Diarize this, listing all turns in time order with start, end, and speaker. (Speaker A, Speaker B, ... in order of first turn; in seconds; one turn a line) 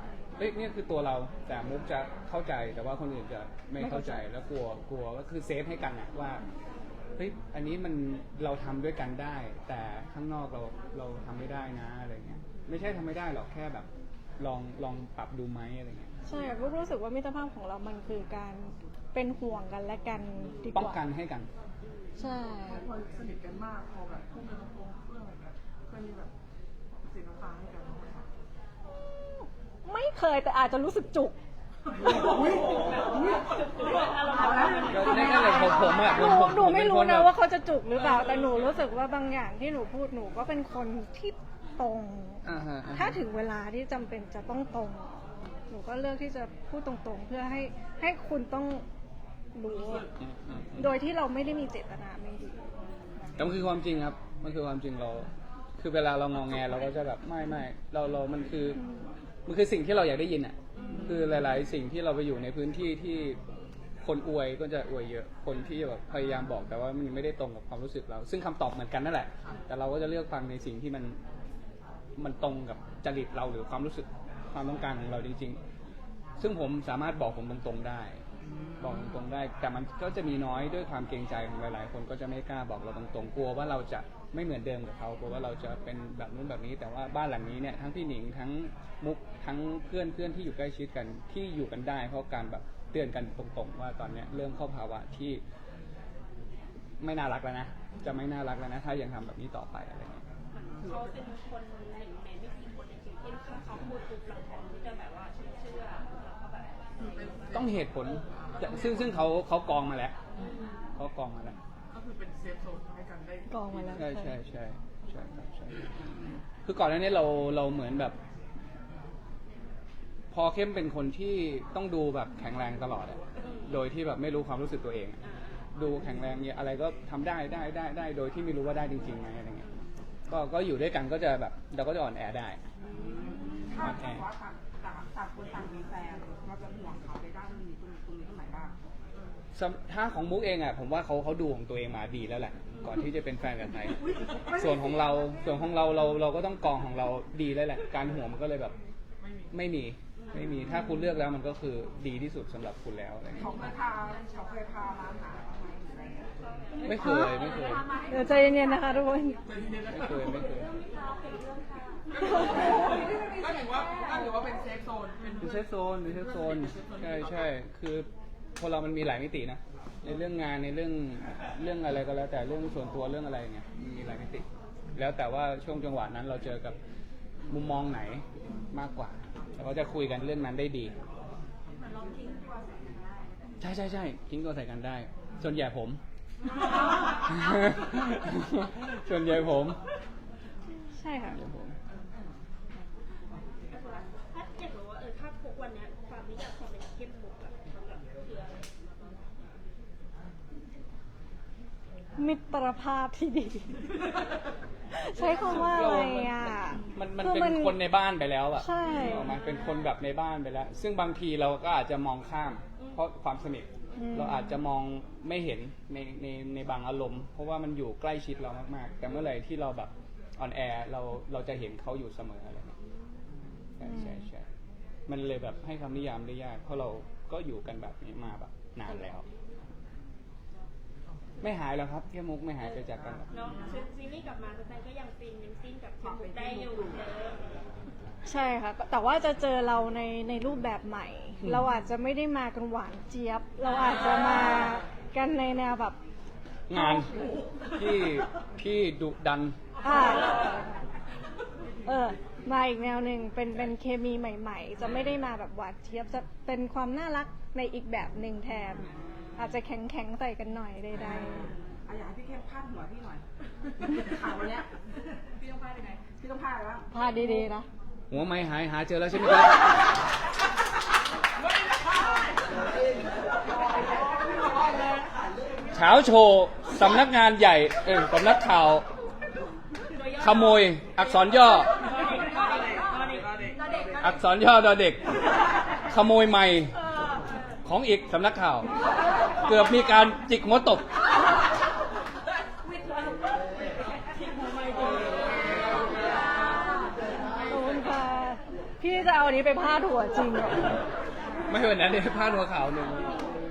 Speaker A: 0.4-6.4
Speaker B: 3.8-4.2
Speaker A: 7.2-13.9
Speaker A: 14.4-16.1
Speaker B: 16.2-21.0
Speaker A: 20.7-21.5
Speaker B: 22.2-22.9
Speaker C: 22.6-26.3
Speaker C: 27.0-28.3
Speaker B: 29.0-31.3
Speaker D: 32.0-36.1
Speaker E: 34.2-35.2
Speaker B: 34.8-48.8
Speaker A: 34.9-37.3
Speaker A: 42.4-43.2
Speaker B: 49.5-50.1
Speaker A: 50.2-50.9
Speaker B: 50.8-52.6
Speaker A: 53.4-58.8
Speaker B: 58.8-59.1
Speaker A: 59.5-63.4
Speaker A: 64.0-71.2
Speaker A: 72.2-75.6
Speaker A: 76.4-78.2
Speaker A: 78.8-95.4
Speaker A: 97.0-100.2
Speaker E: 100.5-107.5
Speaker C: 100.8-101.1
Speaker C: 107.1-107.7
Speaker A: 107.5-110.2
Speaker C: 108.5-108.8
Speaker E: 110.4-110.7
Speaker A: 111.0-111.6
Speaker C: 111.9-113.6
Speaker B: 113.5-114.3
Speaker A: 113.9-115.8
Speaker A: 116.7-118.2
Speaker A: 120.3-125.2
Speaker E: 123.4-123.7
Speaker E: 125.2-125.5
Speaker A: 125.7-129.7
Speaker A: 130.3-132.6
Speaker D: 132.8-138.8
Speaker A: 133.8-134.2
Speaker A: 139.5-148.8
Speaker D: 144.0-145.0
Speaker A: 149.5-153.7
Speaker D: 153.3-156.3
Speaker E: 156.8-157.3
Speaker A: 156.8-157.8
Speaker B: 156.9-157.4
Speaker B: 158.1-159.4
Speaker C: 159.4-160.4
Speaker A: 159.9-160.7
Speaker C: 162.1-167.4
Speaker D: 162.4-164.3
Speaker A: 165.4-176.8
Speaker A: 177.5-180.9
Speaker A: 183.6-186.0
Speaker A: 187.3-189.8
Speaker B: 190.9-191.4
Speaker A: 191.3-191.7
Speaker E: 193.7-199.2
Speaker B: 202.2-203.8
Speaker B: 204.9-207.8
Speaker E: 205.2-206.0
Speaker A: 205.3-222.7
Speaker B: 208.6-209.3
Speaker B: 213.9-214.6
Speaker A: 223.8-224.4
Speaker B: 223.8-224.2
Speaker A: 225.1-229.2
Speaker A: 231.4-233.2
Speaker D: 233.0-233.8
Speaker E: 233.3-237.7
Speaker D: 236.0-237.0
Speaker B: 238.2-246.0
Speaker A: 246.7-247.1
Speaker B: 246.7-247.1
Speaker A: 247.7-249.6
Speaker B: 249.8-250.4
Speaker B: 251.8-258.8
Speaker B: 259.4-261.5
Speaker D: 260.9-263.2
Speaker D: 263.8-264.8
Speaker D: 266.2-266.9
Speaker B: 266.9-267.7
Speaker A: 268.1-269.6
Speaker A: 275.7-278.9
Speaker E: 279.9-283.3
Speaker A: 280.2-281.7
Speaker C: 282.6-283.9
Speaker A: 284.0-285.0
Speaker A: 285.9-286.7
Speaker A: 287.6-288.7
Speaker A: 289.4-290.9
Speaker B: 297.5-300.8
Speaker A: 301.5-303.4